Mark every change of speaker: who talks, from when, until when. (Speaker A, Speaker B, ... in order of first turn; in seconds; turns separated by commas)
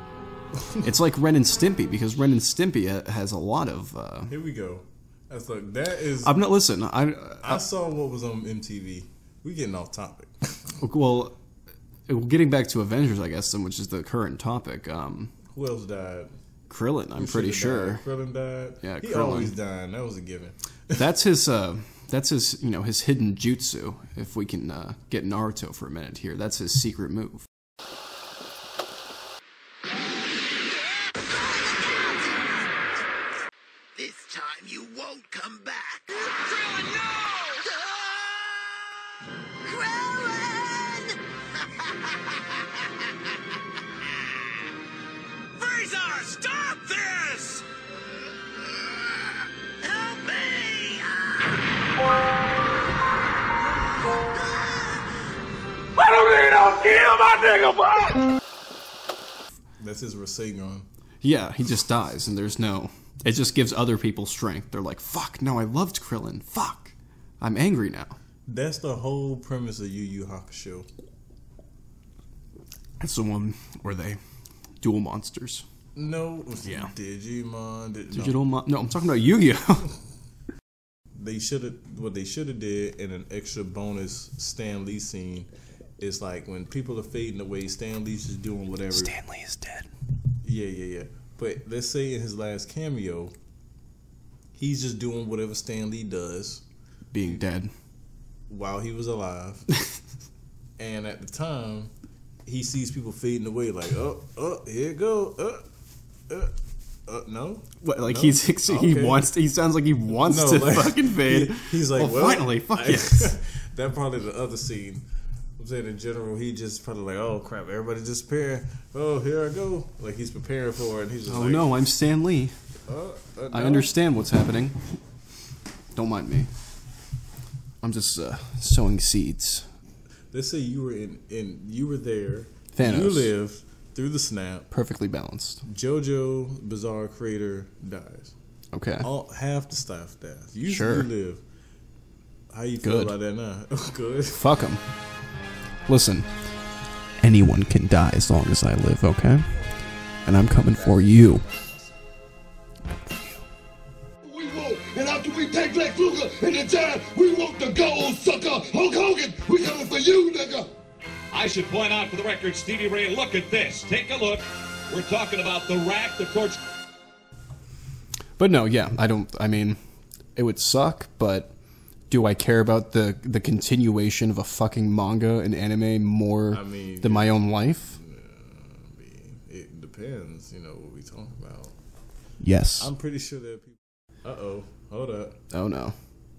Speaker A: 0.8-4.4, Speaker B: 4.3-6.4, Speaker A: 6.2-7.6, Speaker B: 7.4-10.3, Speaker A: 10.8-11.3, Speaker A: 12.1-15.3, Speaker B: 15.5-16.3, Speaker A: 16.7-18.1, Speaker B: 17.1-21.0, Speaker A: 18.8-19.5, Speaker A: 20.9-27.5, Speaker C: 34.0-36.0, Speaker C: 39.7-41.2, Speaker C: 45.6-47.6, Speaker C: 49.8-51.3, Speaker B: 59.8-60.9, Speaker A: 61.2-68.2, Speaker B: 68.5-70.9, Speaker A: 73.0-74.2, Speaker A: 74.8-75.7, Speaker B: 76.0-78.4, Speaker A: 76.6-76.9, Speaker A: 78.1-79.9, Speaker B: 81.2-85.5, Speaker B: 86.0-89.2, Speaker A: 88.9-89.9, Speaker B: 90.4-93.3, Speaker B: 94.6-96.6, Speaker A: 97.1-97.7, Speaker B: 98.5-99.7, Speaker B: 100.8-101.9, Speaker B: 102.5-105.7, Speaker B: 107.1-109.3, Speaker A: 107.8-113.4, Speaker B: 110.1-115.1, Speaker B: 115.6-121.8, Speaker A: 121.3-122.5, Speaker B: 122.9-124.0, Speaker A: 123.5-124.8, Speaker A: 126.0-126.5, Speaker A: 127.8-129.7, Speaker B: 130.3-134.7, Speaker A: 132.7-133.3, Speaker A: 134.7-135.6, Speaker B: 135.6-138.3, Speaker A: 138.7-139.1, Speaker B: 139.0-141.4, Speaker A: 140.7-141.1, Speaker B: 142.5-144.5, Speaker A: 142.8-143.1, Speaker A: 144.3-144.8, Speaker A: 145.9-146.3, Speaker A: 147.2-149.5, Speaker A: 150.2-151.4, Speaker D: 154.3-160.7, Speaker E: 161.3-166.6, Speaker A: 168.4-169.8, Speaker A: 170.3-171.5, Speaker A: 172.1-178.0, Speaker B: 176.5-181.8, Speaker A: 182.4-182.9, Speaker B: 182.8-185.4, Speaker A: 185.5-185.9